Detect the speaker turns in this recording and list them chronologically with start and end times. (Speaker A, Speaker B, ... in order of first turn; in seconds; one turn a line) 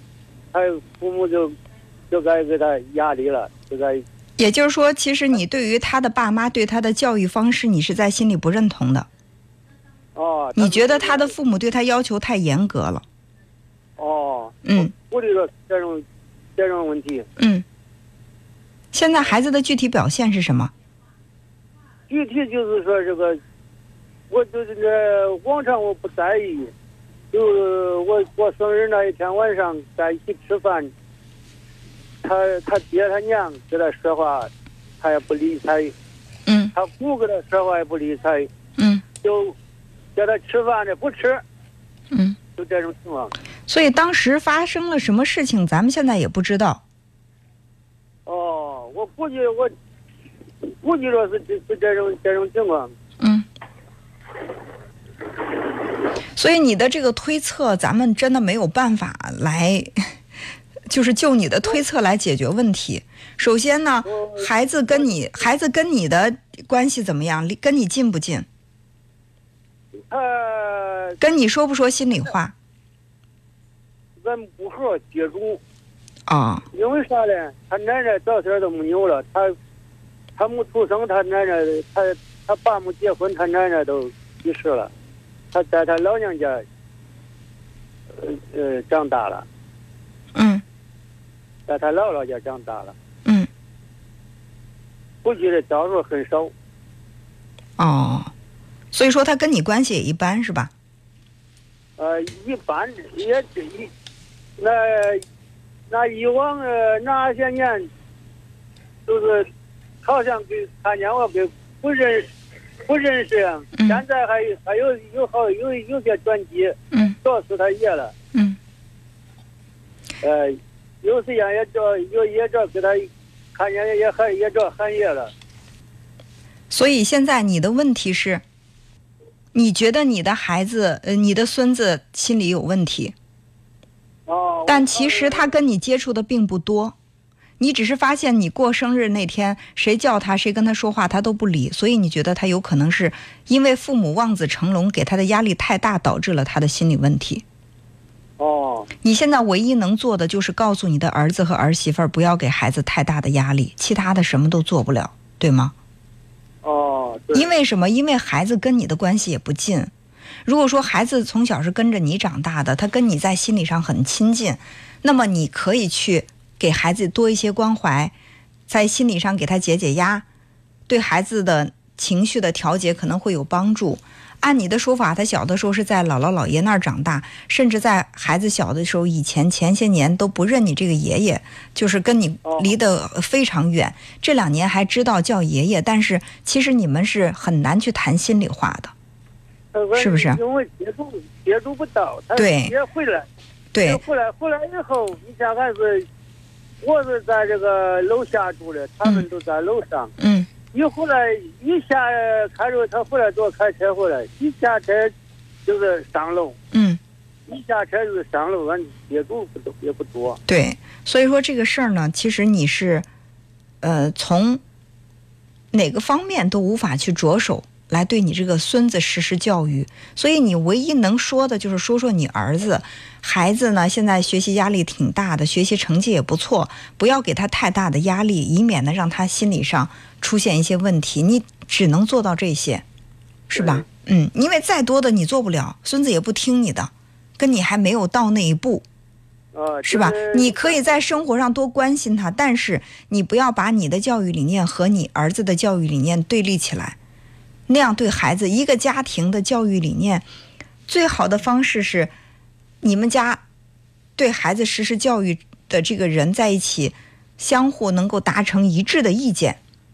Speaker A: 0.5-1.6
Speaker A: 2.1-4.0
Speaker B: 4.4-9.1
Speaker A: 10.2-11.3
Speaker B: 10.6-13.0
Speaker A: 14.0-16.1
Speaker B: 14.7-14.9
Speaker A: 16.6-17.3
Speaker B: 17.4-17.6
Speaker B: 18.9-20.7
Speaker A: 22.1-23.4
Speaker A: 24.3-26.7
Speaker A: 27.3-30.9
Speaker A: 32.2-34.5
Speaker A: 35.0-35.9
Speaker B: 36.5-36.7
Speaker A: 36.8-38.5
Speaker B: 38.8-39.0
Speaker A: 39.2-39.6
Speaker A: 40.1-41.4
Speaker B: 42.1-42.4
Speaker A: 42.6-43.3
Speaker B: 43.7-46.8
Speaker A: 48.3-49.7
Speaker A: 50.6-52.9
Speaker B: 53.2-53.5
Speaker B: 56.4-60.1
Speaker B: 60.9-68.5
Speaker A: 64.0-65.2
Speaker A: 70.0-71.2
Speaker B: 71.2-72.5
Speaker A: 74.2-75.6
Speaker B: 76.3-76.7
Speaker A: 76.7-79.5
Speaker A: 80.4-84.9
Speaker A: 85.5-86.6
Speaker A: 88.1-89.5
Speaker B: 90.3-90.6
Speaker A: 91.7-92.9
Speaker A: 95.2-96.5
Speaker B: 97.8-98.3
Speaker B: 98.9-100.7
Speaker A: 102.0-103.9
Speaker A: 104.6-105.2
Speaker A: 105.9-107.9
Speaker A: 109.1-109.5
Speaker A: 110.0-112.3
Speaker A: 112.9-118.1
Speaker B: 113.8-114.0
Speaker B: 116.9-117.2
Speaker A: 120.2-125.3
Speaker B: 126.7-128.4
Speaker B: 129.5-133.1
Speaker A: 134.3-135.5
Speaker B: 134.7-137.0
Speaker B: 137.6-147.4
Speaker A: 148.4-148.9
Speaker B: 149.0-155.7
Speaker A: 156.6-157.5
Speaker B: 157.3-159.9
Speaker B: 160.4-168.1
Speaker B: 168.7-170.2
Speaker B: 170.9-188.9
Speaker A: 182.4-182.8
Speaker A: 189.7-193.3
Speaker B: 189.9-190.4
Speaker B: 192.3-192.8
Speaker B: 193.7-194.0
Speaker A: 193.8-196.1
Speaker A: 196.8-200.1
Speaker B: 200.2-200.5
Speaker A: 200.7-205.1
Speaker A: 205.7-206.6
Speaker B: 206.7-207.0
Speaker A: 207.5-210.4
Speaker B: 210.5-213.1
Speaker B: 213.8-214.6
Speaker B: 215.7-232.8
Speaker B: 233.5-238.8
Speaker A: 233.5-233.8
Speaker A: 239.5-241.1
Speaker B: 239.8-247.0
Speaker B: 247.7-250.2
Speaker B: 250.9-252.1
Speaker B: 252.8-253.4
Speaker B: 254.2-259.6